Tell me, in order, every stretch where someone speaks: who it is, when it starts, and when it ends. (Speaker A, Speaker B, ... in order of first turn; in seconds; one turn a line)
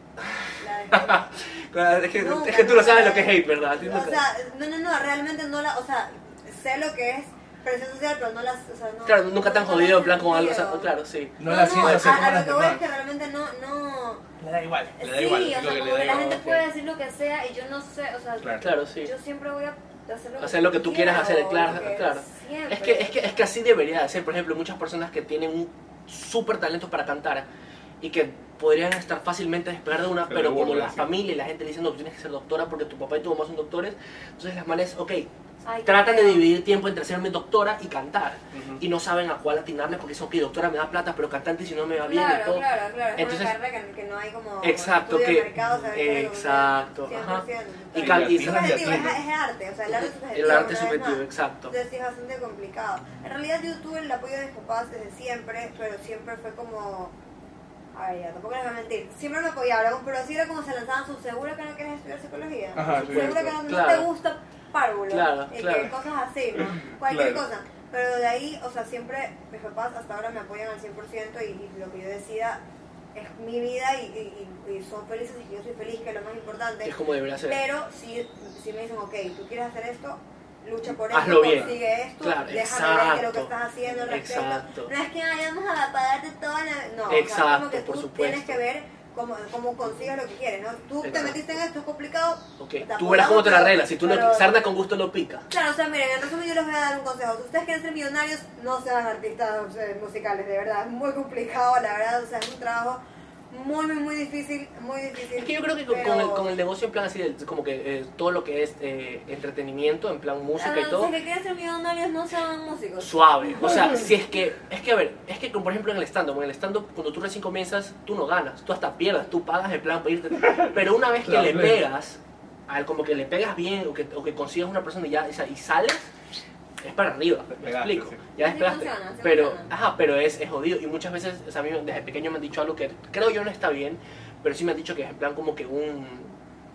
Speaker A: 0.3-4.2
Speaker B: 0.6-1.3
Speaker B: 2.2-10.9
Speaker A: 9.1-12.0
Speaker C: 11.4-12.8
Speaker B: 11.4-14.2
Speaker C: 14.4-16.6
Speaker B: 15.0-23.4
Speaker C: 18.4-18.7
Speaker A: 18.6-19.1
Speaker A: 20.4-27.5
Speaker A: 28.0-35.3
Speaker C: 30.3-31.1
Speaker B: 35.6-36.5
Speaker A: 35.9-42.6
Speaker C: 38.5-38.8
Speaker B: 42.0-57.1
Speaker A: 43.2-43.5
Speaker A: 44.6-49.0
Speaker C: 48.0-49.2
Speaker A: 49.9-51.7
Speaker B: 57.9-72.6
Speaker C: 62.8-63.6
Speaker A: 62.9-64.1
Speaker A: 65.1-65.9
Speaker C: 66.6-67.4
Speaker B: 73.1-76.9
Speaker A: 76.8-77.6
Speaker B: 77.5-94.7
Speaker A: 81.0-84.9
Speaker A: 87.1-88.6
Speaker A: 91.0-91.5
Speaker A: 92.6-95.5
Speaker B: 95.5-106.6
Speaker A: 105.3-111.1
Speaker B: 110.6-113.1
Speaker A: 113.0-126.1
Speaker C: 121.3-121.8
Speaker A: 126.8-136.3
Speaker C: 127.5-128.2
Speaker B: 128.4-129.7